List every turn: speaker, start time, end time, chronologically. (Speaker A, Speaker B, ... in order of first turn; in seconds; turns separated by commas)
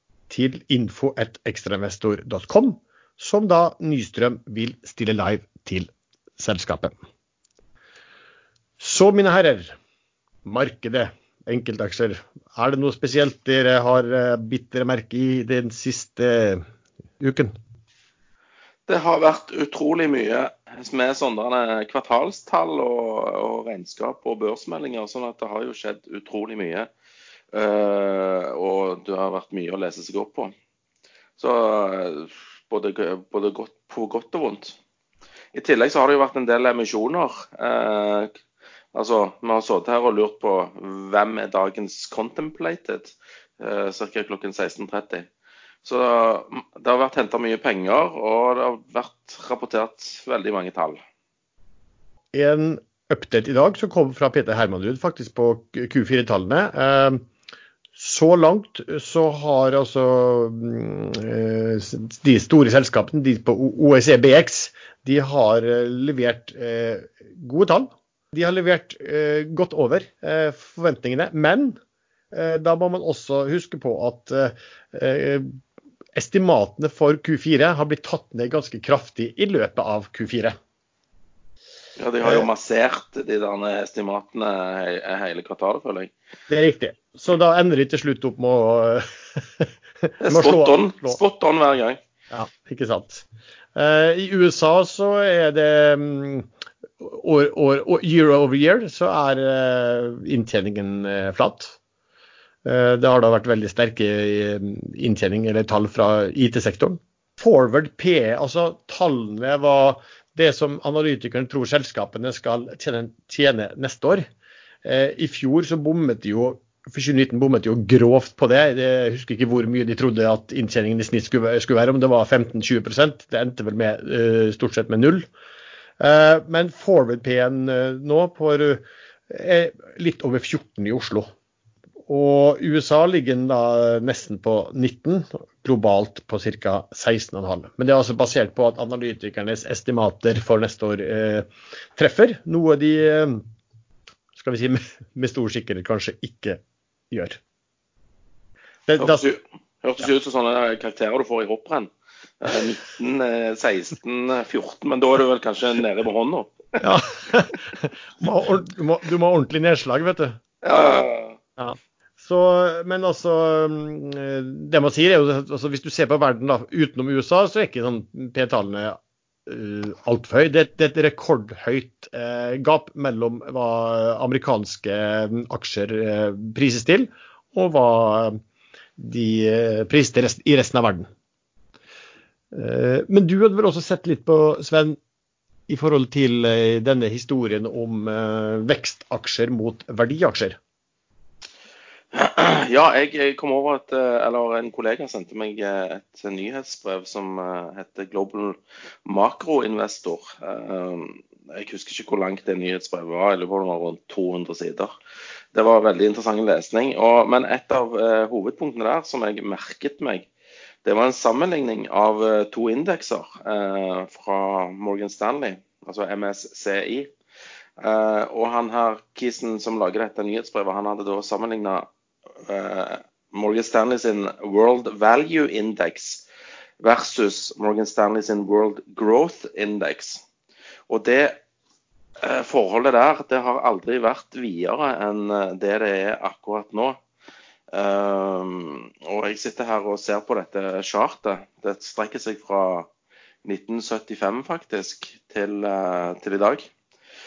Speaker A: 0.3-7.0, Speaker A: 8.8-9.8, Speaker A: 10.4-16.6, Speaker A: 17.2-17.6, Speaker B: 18.9-26.9, Speaker B: 27.5-30.5, Speaker B: 31.4-34.8, Speaker B: 35.5-38.4, Speaker B: 38.9-45.3, Speaker B: 45.8-51.0, Speaker A: 52.3-57.2, Speaker A: 58.0-71.8, Speaker A: 72.3-75.5, Speaker A: 76.2-80.6, Speaker B: 82.0-86.1, Speaker A: 82.2-82.5, Speaker A: 86.5-91.2, Speaker B: 90.2-92.0, Speaker A: 92.3-96.5, Speaker A: 97.0-101.8, Speaker A: 102.7-114.3, Speaker A: 114.8-125.3, Speaker A: 126.0-131.3, Speaker A: 132.1-143.4, Speaker A: 144.3-146.6, Speaker A: 147.1-147.4, Speaker A: 148.9-149.2, Speaker B: 149.0-156.9, Speaker A: 156.8-160.4, Speaker B: 160.6-161.4, Speaker A: 161.6-178.4, Speaker A: 179.0-181.1, Speaker A: 182.5-185.0, Speaker A: 185.7-190.6, Speaker B: 192.1-204.9, Speaker B: 205.5-210.3, Speaker B: 210.8-217.1, Speaker B: 217.8-221.9, Speaker B: 222.4-226.2, Speaker B: 226.8-230.2, Speaker B: 230.9-231.4, Speaker B: 232.2-237.0, Speaker B: 237.7-242.9, Speaker B: 243.4-246.7